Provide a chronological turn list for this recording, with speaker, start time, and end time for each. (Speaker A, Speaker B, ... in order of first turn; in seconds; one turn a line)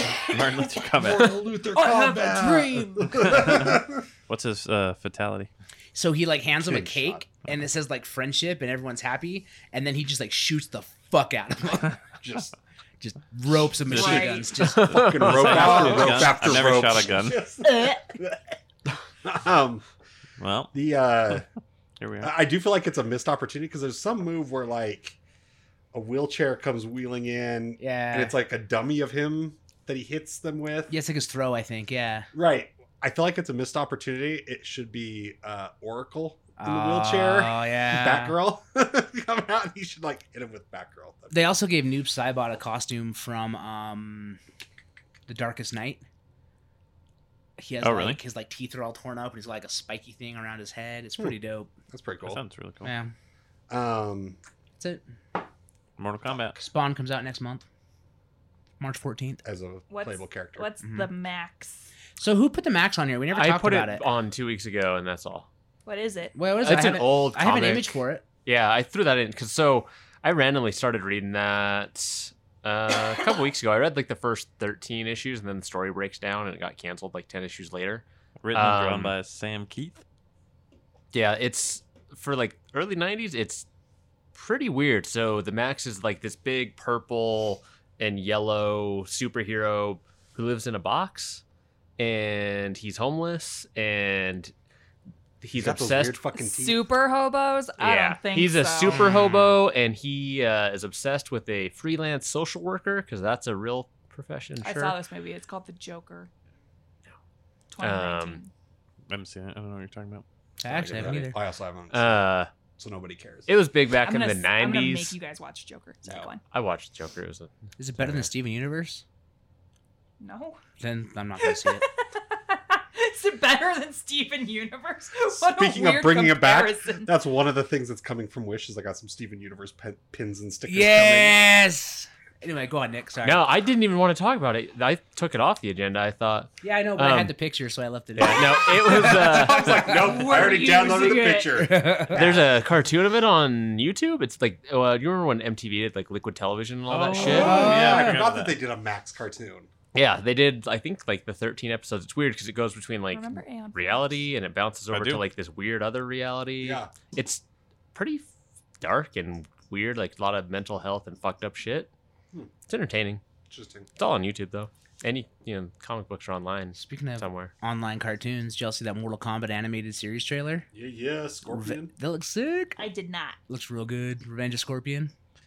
Speaker A: 0.3-1.4
Speaker B: 0.6-4.0
Speaker C: 1.7-3.3
Speaker A: 3.2-5.5
Speaker D: 5.9-12.0
Speaker B: 6.6-7.2
Speaker B: 12.2-12.5
Speaker D: 13.0-15.7
Speaker B: 13.9-18.6
Speaker C: 13.9-14.5
Speaker E: 14.8-15.6
Speaker A: 15.2-17.4
Speaker C: 17.6-18.1
Speaker B: 19.2-19.8
Speaker A: 20.4-20.7
Speaker B: 20.7-21.4
Speaker A: 22.0-22.3
Speaker B: 22.2-25.2
Speaker B: 25.9-30.9
Speaker D: 27.8-28.3
Speaker D: 30.9-32.3
Speaker B: 32.3-41.4
Speaker D: 36.6-38.4
Speaker D: 41.3-44.4
Speaker D: 45.3-46.0
Speaker D: 47.6-51.7
Speaker A: 47.8-48.2
Speaker B: 51.9-52.4
Speaker A: 52.2-52.9
Speaker D: 52.8-53.1
Speaker B: 53.7-54.4
Speaker A: 56.0-56.6
Speaker D: 56.6-57.6
Speaker D: 58.8-59.4
Speaker B: 59.4-60.7
Speaker C: 59.9-61.9
Speaker D: 60.8-61.1
Speaker D: 62.2-64.1
Speaker E: 63.3-65.5
Speaker C: 65.9-66.4
Speaker D: 66.3-68.2
Speaker E: 66.6-79.1
Speaker A: 78.4-80.0
Speaker E: 81.1-83.7
Speaker E: 84.3-91.4
Speaker E: 92.0-94.5
Speaker E: 95.4-96.2
Speaker B: 95.5-96.8
Speaker C: 96.3-99.0
Speaker E: 97.8-105.0
Speaker C: 104.6-106.3
Speaker C: 107.7-108.5
Speaker E: 107.8-108.4
Speaker A: 109.1-110.2
Speaker D: 110.6-111.4
Speaker B: 110.7-113.5
Speaker E: 110.9-111.2
Speaker E: 111.9-112.5
Speaker E: 113.5-115.2
Speaker C: 114.0-116.4
Speaker E: 116.4-118.2
Speaker D: 117.8-119.0
Speaker C: 120.2-120.6
Speaker D: 120.8-121.8
Speaker C: 121.4-127.1
Speaker B: 125.3-131.4
Speaker D: 130.7-133.5
Speaker E: 133.2-137.4
Speaker D: 136.6-140.4
Speaker E: 138.2-139.8
Speaker B: 138.9-142.3
Speaker C: 139.7-141.7
Speaker D: 141.6-142.4
Speaker E: 142.1-147.6
Speaker A: 146.9-148.6
Speaker D: 147.2-148.2
Speaker B: 147.2-149.7
Speaker E: 149.9-157.4
Speaker C: 153.1-154.3
Speaker A: 154.9-155.2
Speaker B: 156.6-156.9
Speaker E: 157.9-158.3
Speaker E: 158.8-161.9
Speaker E: 162.7-163.2
Speaker B: 163.5-163.9
Speaker E: 164.0-167.5
Speaker D: 166.8-170.7
Speaker B: 170.7-171.9
Speaker D: 171.5-172.8
Speaker C: 172.8-173.4
Speaker D: 173.5-175.1